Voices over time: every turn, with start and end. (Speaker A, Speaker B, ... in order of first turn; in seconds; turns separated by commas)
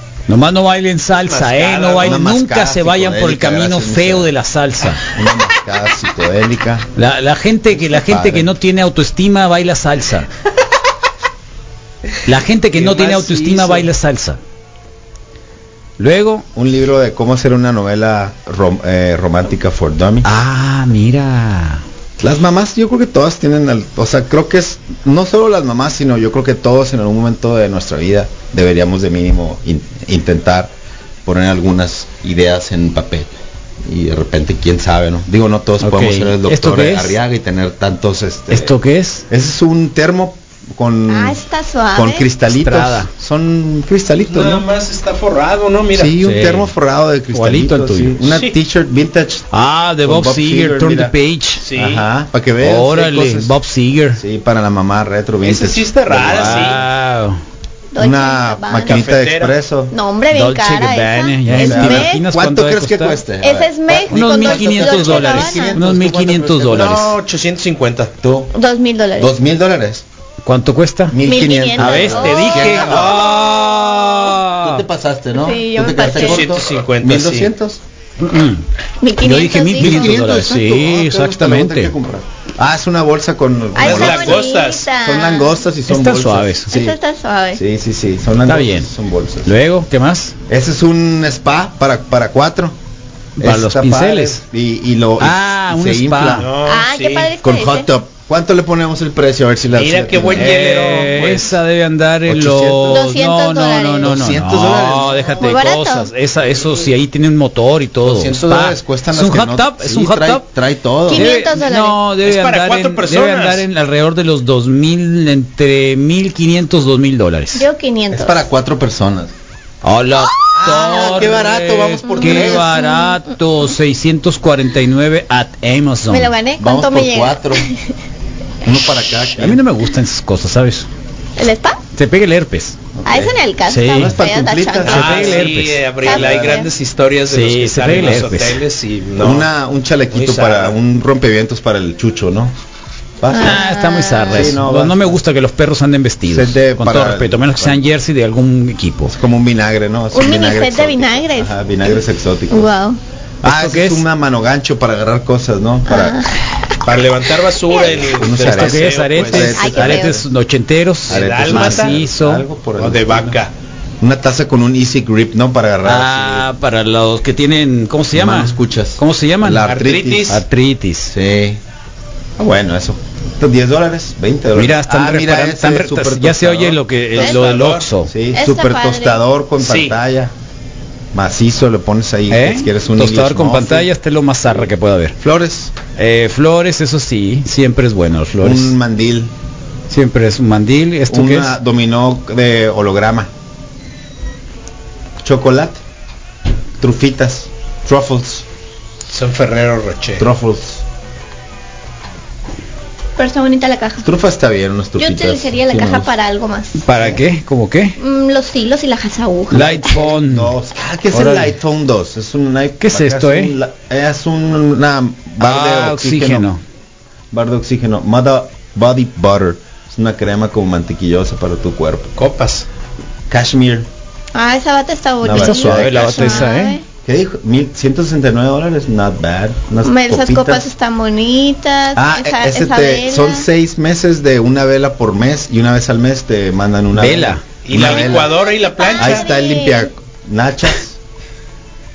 Speaker A: 0.3-5.0, Speaker B: 1.1-2.2, Speaker C: 2.0-4.3, Speaker C: 5.0-6.9, Speaker A: 7.0-10.3, Speaker C: 7.7-8.5, Speaker A: 12.2-14.4, Speaker C: 12.8-13.8, Speaker B: 12.8-13.8, Speaker A: 16.0-16.5, Speaker C: 16.6-20.3, Speaker A: 20.2-21.8, Speaker C: 22.2-30.7, Speaker C: 31.2-33.3, Speaker C: 33.9-38.8, Speaker A: 35.8-37.2, Speaker A: 38.5-39.3, Speaker C: 39.3-44.6, Speaker D: 41.1-42.3, Speaker A: 42.5-43.1, Speaker B: 44.3-46.1, Speaker C: 45.9-49.5, Speaker A: 46.2-46.7, Speaker A: 47.3-48.2, Speaker B: 48.3-48.5, Speaker A: 49.5-51.6, Speaker C: 50.0-51.1, Speaker B: 51.6-52.1, Speaker C: 51.8-53.5, Speaker A: 52.6-54.2, Speaker C: 54.1-56.8, Speaker B: 55.4-56.8, Speaker A: 56.3-57.4, Speaker D: 57.9-59.0, Speaker C: 58.0-60.0, Speaker B: 58.9-59.5, Speaker D: 59.9-62.2, Speaker A: 60.3-63.2, Speaker C: 61.5-67.0, Speaker D: 63.4-65.8, Speaker A: 64.1-67.2, Speaker B: 66.7-68.1, Speaker C: 68.2-68.5, Speaker D: 68.5-69.3, Speaker C: 69.2-70.0, Speaker A: 70.4-71.2, Speaker C: 71.1-73.3, Speaker D: 71.3-74.1, Speaker A: 71.7-74.8, Speaker C: 74.6-77.8, Speaker D: 75.3-76.5, Speaker B: 76.1-77.5, Speaker A: 78.2-78.6, Speaker D: 79.0-80.2, Speaker A: 79.2-82.0, Speaker C: 79.8-87.0, Speaker D: 83.7-85.6, Speaker B: 83.8-84.9, Speaker A: 85.9-86.7, Speaker D: 86.7-87.6, Speaker C: 87.5-89.5, Speaker A: 88.5-88.9, Speaker A: 89.5-90.4, Speaker C: 90.5-92.8, Speaker A: 93.4-94.4, Speaker C: 93.4-96.5, Speaker A: 95.2-96.5, Speaker B: 96.4-97.3, Speaker D: 96.7-97.9, Speaker C: 97.4-100.8, Speaker B: 99.8-101.6, Speaker A: 100.3-110.5, Speaker C: 102.3-103.0, Speaker D: 102.9-104.3, Speaker C: 104.0-105.6, Speaker D: 105.4-106.1, Speaker C: 108.0-111.5, Speaker D: 111.1-112.0, Speaker A: 111.1-117.7, Speaker B: 112.2-113.7, Speaker D: 117.5-118.5, Speaker C: 118.1-119.3, Speaker A: 119.8-126.3, Speaker C: 120.5-122.8, Speaker D: 120.7-121.2, Speaker D: 122.1-123.2, Speaker D: 126.1-127.9, Speaker C: 126.6-127.7, Speaker C: 128.6-129.6, Speaker A: 129.3-130.9, Speaker D: 131.4-131.8, Speaker A: 131.9-132.8, Speaker C: 132.9-135.4, Speaker D: 133.0-135.3, Speaker A: 133.7-134.2, Speaker A: 134.8-135.9, Speaker B: 134.8-139.5, Speaker D: 136.0-136.7, Speaker C: 136.1-136.6, Speaker A: 137.3-138.6, Speaker C: 139.2-142.5, Speaker B: 140.1-140.8, Speaker C: 143.2-143.7, Speaker D: 143.3-144.6, Speaker A: 143.3-149.1, Speaker C: 144.3-145.2, Speaker C: 146.3-147.8, Speaker C: 149.1-152.7, Speaker D: 150.1-153.0, Speaker A: 153.4-154.0, Speaker C: 153.4-156.2, Speaker D: 155.9-156.5, Speaker B: 156.8-159.6, Speaker D: 157.7-158.1, Speaker C: 157.9-160.2, Speaker A: 158.5-162.5, Speaker D: 159.6-160.2, Speaker B: 161.1-162.0, Speaker C: 161.1-163.4, Speaker B: 162.8-163.5, Speaker C: 164.0-166.5, Speaker A: 165.8-169.7, Speaker C: 168.1-170.4, Speaker B: 169.7-170.4, Speaker A: 170.3-171.1, Speaker C: 171.1-171.6, Speaker C: 172.4-176.8, Speaker A: 174.5-178.1, Speaker B: 177.1-177.9, Speaker D: 177.1-177.4, Speaker C: 178.0-180.3, Speaker D: 178.3-179.2, Speaker B: 179.6-180.0, Speaker C: 181.1-183.9, Speaker A: 182.3-185.2, Speaker C: 185.2-185.7, Speaker A: 185.9-188.8, Speaker C: 188.4-189.3, Speaker A: 189.9-191.6, Speaker C: 191.1-193.3, Speaker C: 195.2-195.8, Speaker C: 196.8-198.4, Speaker B: 199.1-200.3, Speaker C: 200.2-200.8, Speaker D: 203.2-204.1, Speaker C: 204.0-206.1, Speaker D: 205.0-206.8, Speaker A: 206.8-208.0, Speaker C: 207.0-207.2, Speaker D: 208.0-209.9, Speaker A: 209.5-210.5, Speaker C: 209.5-216.5, Speaker A: 211.1-211.6, Speaker A: 212.8-213.6, Speaker A: 215.4-216.6, Speaker C: 217.3-222.2, Speaker B: 222.2-222.7, Speaker C: 223.3-223.9, Speaker D: 224.3-226.8, Speaker C: 225.2-226.5, Speaker A: 225.3-226.8, Speaker C: 227.1-230.7, Speaker D: 229.8-233.5, Speaker C: 231.9-238.4, Speaker A: 236.9-237.4, Speaker B: 237.6-239.3, Speaker D: 237.8-239.9, Speaker C: 239.0-241.0